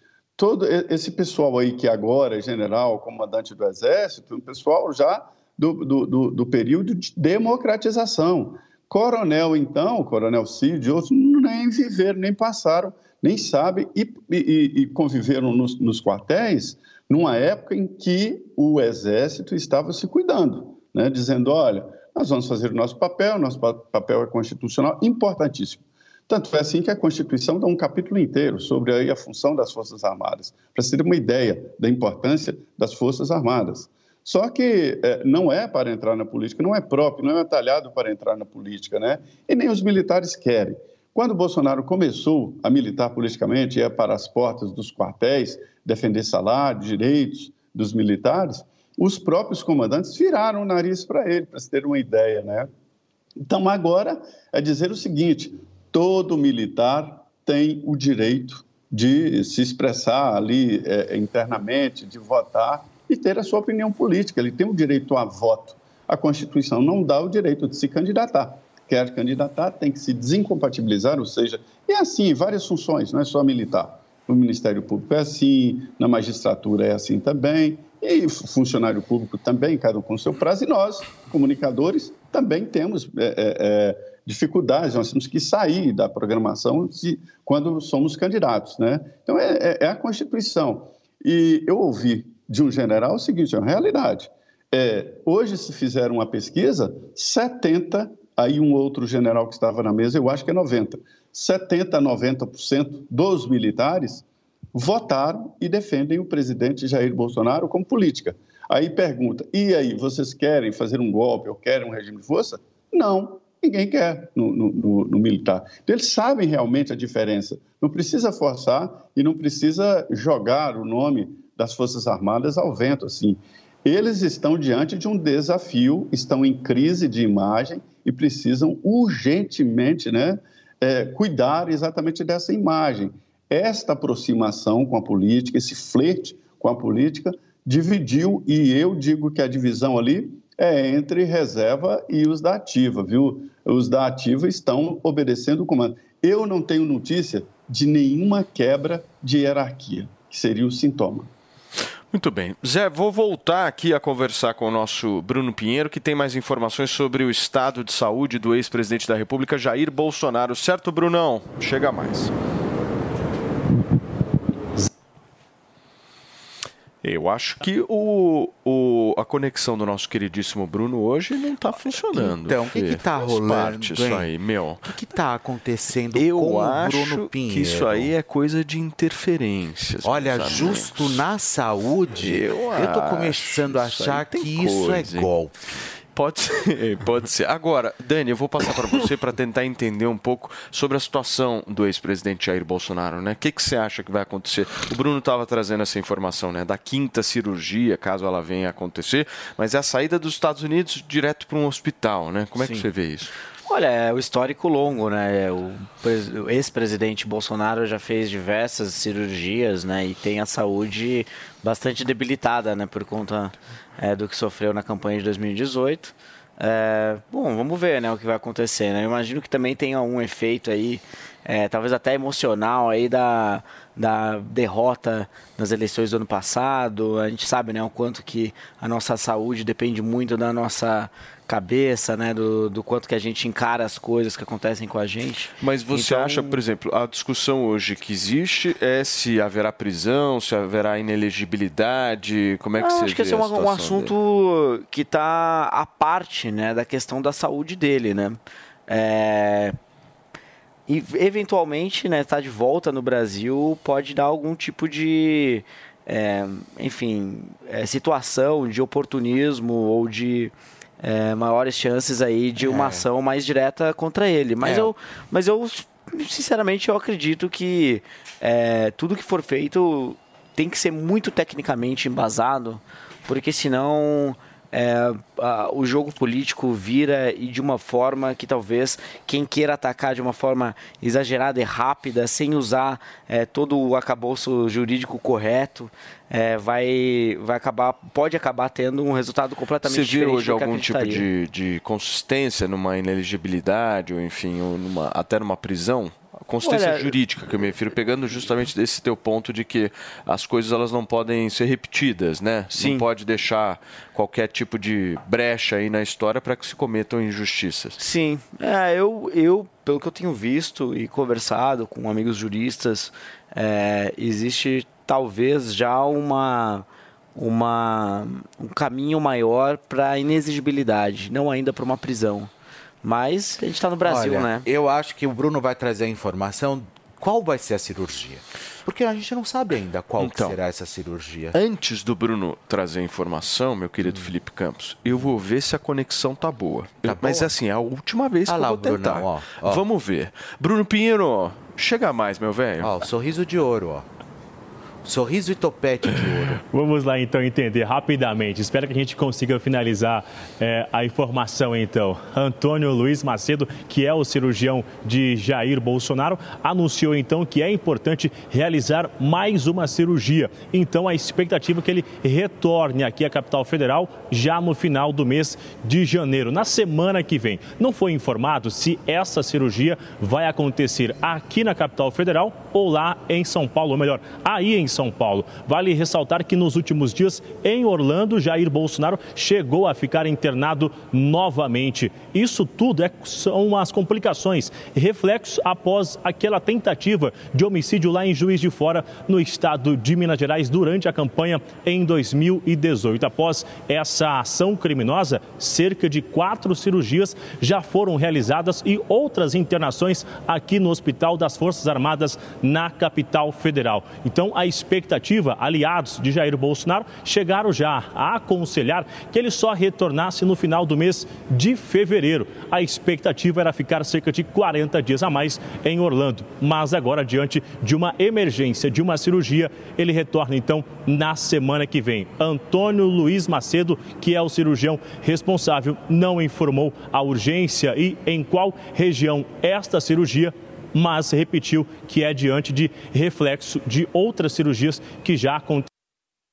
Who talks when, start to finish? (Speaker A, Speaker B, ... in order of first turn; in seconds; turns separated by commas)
Speaker A: 0.4-52.7, Speaker A: 53.4-151.3, Speaker B: 152.1-162.3, Speaker B: 167.0-174.9, Speaker C: 171.9-174.3, Speaker C: 174.9-178.1, Speaker B: 176.2-181.2, Speaker C: 180.0-185.8, Speaker B: 182.2-185.3, Speaker B: 186.2-203.3, Speaker D: 202.6-202.8, Speaker D: 203.7-236.6, Speaker B: 235.6-244.1, Speaker D: 242.8-249.8, Speaker D: 250.9-291.2, Speaker C: 262.6-263.0, Speaker C: 264.6-264.9, Speaker B: 289.8-308.0, Speaker D: 296.6-297.1, Speaker D: 302.7-303.0, Speaker D: 308.0-322.5, Speaker D: 323.0-324.7, Speaker C: 324.0-331.6, Speaker B: 330.2-330.6, Speaker B: 331.5-343.0, Speaker C: 337.0-337.5, Speaker C: 338.5-339.8, Speaker C: 342.8-344.1, Speaker C: 345.1-346.6, Speaker E: 346.7-435.9